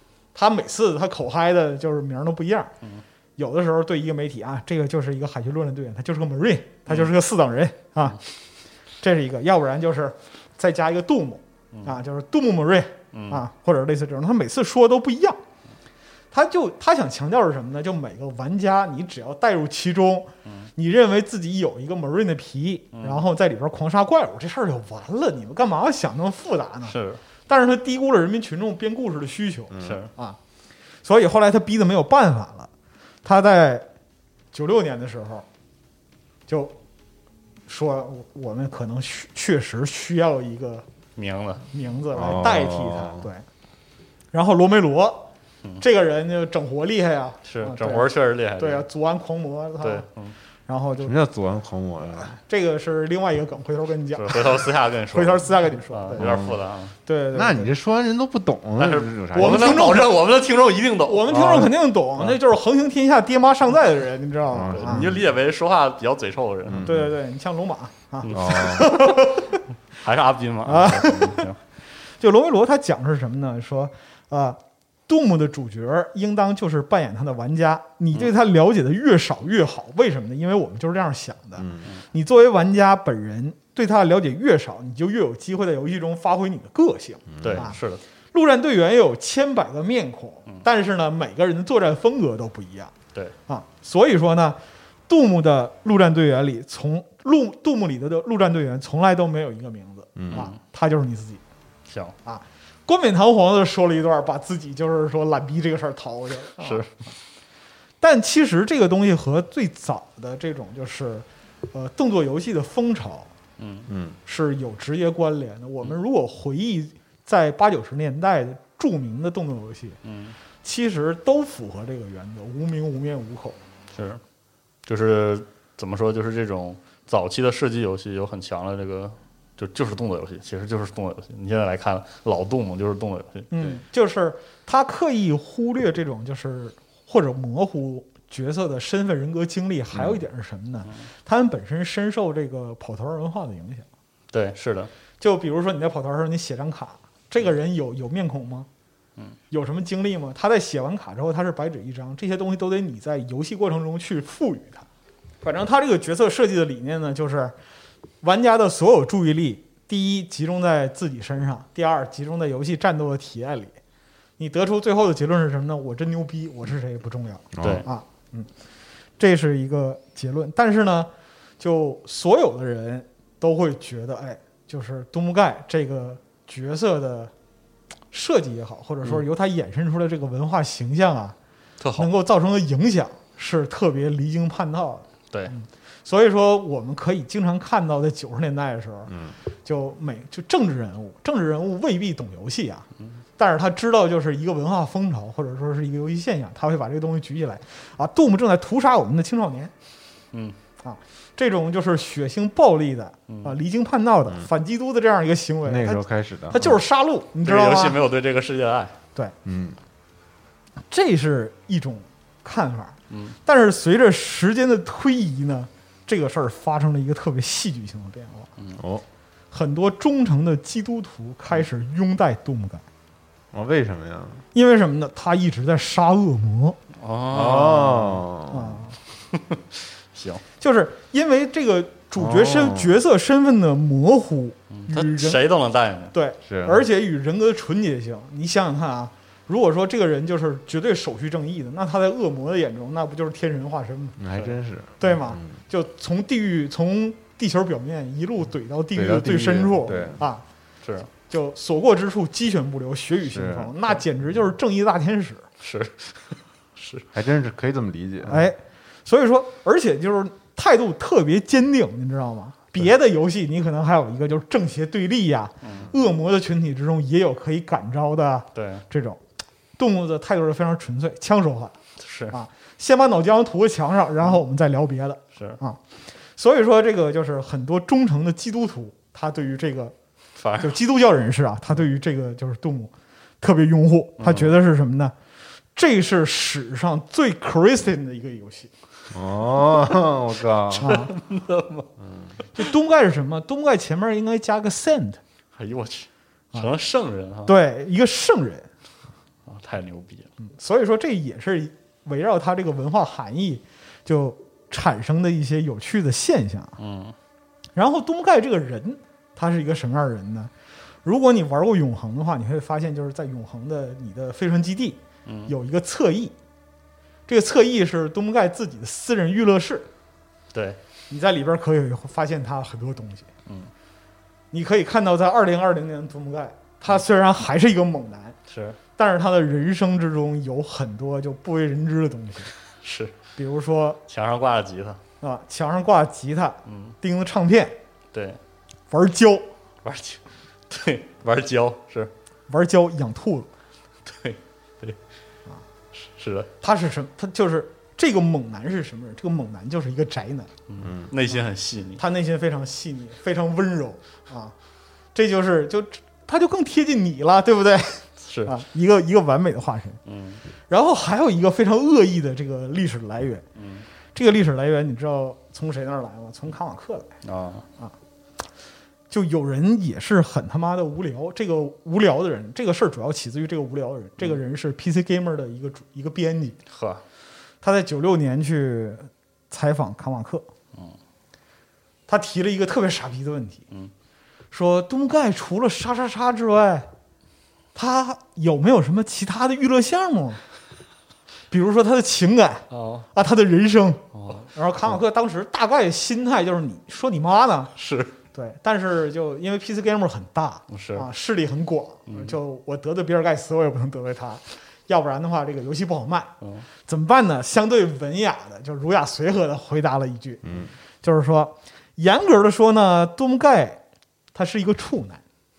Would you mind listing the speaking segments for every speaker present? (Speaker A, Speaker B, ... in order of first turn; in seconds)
Speaker A: 0.3-2.7, 3.4-8.2, 9.0-15.4, 16.3-26.9, 27.5-30.4, 31.0-32.7, 33.2-33.9, 34.5-35.5, 36.5-36.8, 37.7-40.9, 41.7-43.5, 44.3-48.1, 48.6-50.0, 50.7-51.1, 52.2-56.3, 57.1-57.7, 59.4-60.1, 61.1-65.1, 66.8-69.6, 70.7-71.5, 72.2-87.8, 88.3-92.9, 93.5-101.4, 102.2-106.8, 108.0-113.3, 114.3-120.0, 120.6-123.6, 133.5-143.9, 145.2-148.7, 149.5-154.8, 155.4-157.5, 158.2-163.8, 164.4-168.5, 169.2-177.3, 178.1-181.4, 182.0-192.9, 193.4-199.7, 200.8-208.0, 210.9-218.5, 219.5-222.8, 224.5-226.8, 228.5-229.0, 230.6-235.4, 236.1-244.2, 245.0-250.4, 251.3-255.5, 258.2-269.2, 269.8-271.8, 272.3-275.8, 276.4-279.9, 280.6-285.1, 285.8-288.7, 290.8-291.1, 292.6-295.2, 297.5-298.7, 300.4-306.8, 307.8-310.5, 311.1-316.3, 317.3-319.9, 321.1-323.3, 324.5-328.4, 329.0-332.5, 333.4-334.0, 335.2-337.8, 338.9-339.5, 342.5-343.5, 346.6-350.5, 352.0-354.5, 355.1-360.0, 360.7-363.4, 364.1-367.1, 369.1-376.6, 377.6-380.5, 382.1-383.6, 384.5-386.9, 387.8-390.4, 391.5-397.7, 398.3-406.3, 406.9-410.4, 411.0-413.8, 414.3-415.2
Speaker B: 11.7-12.0, 13.1-13.4, 22.9-23.2, 26.9-27.2, 29.8-30.1, 41.2-41.6, 47.5-48.9, 49.8-50.4, 54.1-56.9, 58.8-61.7, 64.7-66.9, 68.2-69.1, 70.0-71.6, 87.4-88.0, 101.9-102.2, 106.6-106.9, 113.6-113.9, 120.0-120.4, 123.9-124.2, 124.9-133.8, 144.3-144.9, 181.8-182.1, 203.3-203.6, 207.4-209.0, 213.1-213.4, 227.0-228.2, 229.3-230.4, 234.7-236.1, 250.8-251.1, 255.6-257.1, 265.6-265.9, 268.6-268.8, 272.0-272.3, 280.4-280.8, 284.2-284.5, 290.7-291.9, 295.6-297.5, 299.5-300.3, 306.8-307.1, 315.3-315.5, 320.5-320.8, 328.5-328.8, 332.8-333.2, 334.1-335.0, 336.7-336.9, 338.1-338.4, 339.8-342.1, 344.1-345.0, 345.9-346.5, 350.7-352.0, 358.2-358.5, 360.1-360.4, 363.6-363.9, 367.2-367.7, 376.7-377.0, 392.7-393.1, 394.1-394.5, 397.8-398.2, 400.7-401.1, 402.1-402.4, 406.4-406.7
Speaker C: 29.7-30.0, 42.1-43.3, 51.0-52.3, 56.2-56.6, 57.3-60.0, 61.3-61.7, 64.5-65.2, 66.7-67.1, 68.3-68.9, 81.6-81.9, 87.3-87.7, 100.2-100.5, 113.9-114.2, 167.5-167.9, 205.7-206.8, 209.4-209.8, 218.8-219.1, 223.5-224.4, 227.3-228.8, 232.2-233.0, 236.5-236.8, 244.2-245.6, 248.9-250.2, 253.3-253.8, 257.1-258.5, 289.1-291.0, 292.0-292.3, 350.8-351.1, 410.4-410.7